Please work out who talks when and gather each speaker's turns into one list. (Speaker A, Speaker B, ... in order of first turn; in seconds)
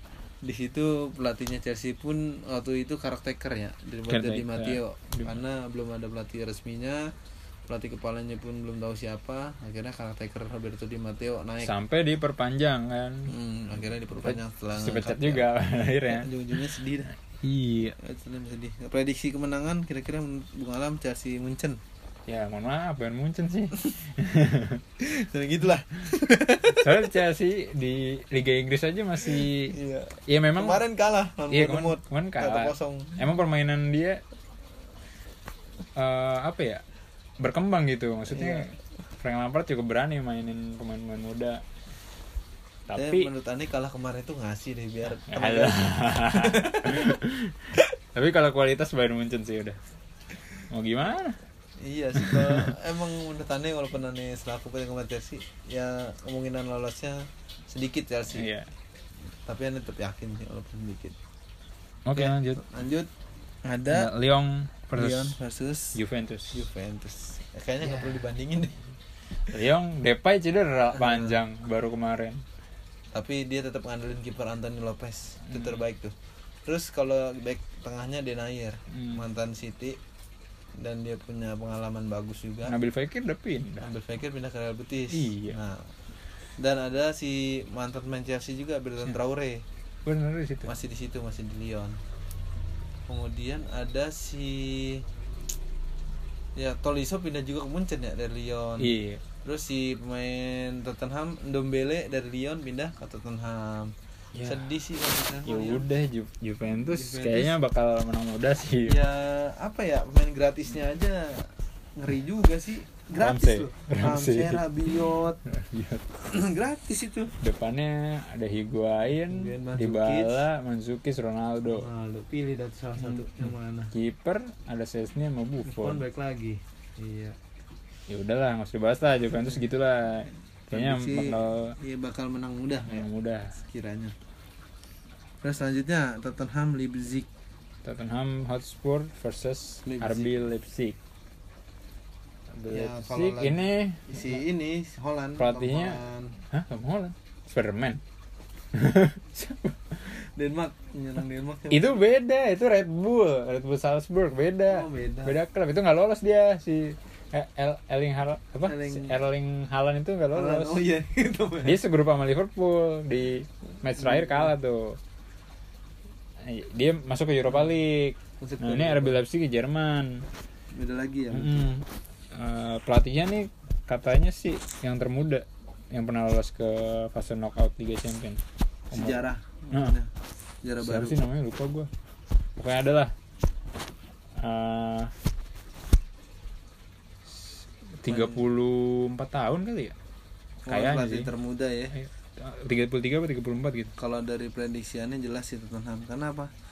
Speaker A: 0.4-7.0, 7.7-11.7, 13.3-15.4, 16.1-17.1, 18.0-21.8, 25.0-27.1, 29.2-33.2, 38.3-38.7, 43.0-47.2, 51.8-58.5, 59.5-61.1, 62.1-63.1, 63.6-64.1, 64.9-66.0, 66.5-68.8, 71.0-71.4, 73.1-76.1, 76.7-80.0, 80.8-82.7, 83.8-85.9, 86.6-89.6, 90.6-92.0, 93.1-95.0, 96.6-103.9, 104.4-105.8, 106.8-107.6, 108.9-115.4, 116.2-117.3, 119.3-120.4, 121.7-123.9, 125.6-127.4, 130.7-134.1, 135.4-137.3, 139.8-140.3, 142.7-146.4, 150.1-152.0, 154.7-155.4, 158.6-159.1, 160.3-161.8, 164.0-164.5, 168.4-169.2, 170.7-171.7, 178.9-180.1, 180.6-181.2, 188.1-188.4, 190.7-191.9, 194.0-196.5
Speaker B: 4.1-5.3, 11.6-13.3, 14.2-16.8, 17.4-17.9, 22.3-24.8, 26.7-29.7, 30.3-30.8, 31.5-34.2, 36.0-36.8, 37.4-41.6, 42.9-43.3, 45.2-49.8, 50.7-51.4, 52.1-52.7, 58.3-58.7, 62.0-62.6, 63.9-65.4, 65.9-66.7, 67.8-68.2, 69.5-72.4, 75.5-75.8, 78.9-79.2, 82.7-83.9, 85.1-85.6, 90.0-90.7, 98.8-99.2, 104.3-104.7, 105.4-108.9, 113.2-114.9, 115.4-116.0, 117.4-121.9, 123.0-126.0, 128.1-131.8, 132.9-133.5, 137.8-141.0, 142.5-144.4, 145.4-148.0, 148.7-150.1, 151.7-160.8, 161.6-165.0, 166.4-170.2, 171.3-179.2, 180.8-181.9, 182.6-183.1, 184.3-185.1, 188.0-189.9, 190.7-191.3, 191.9-193.9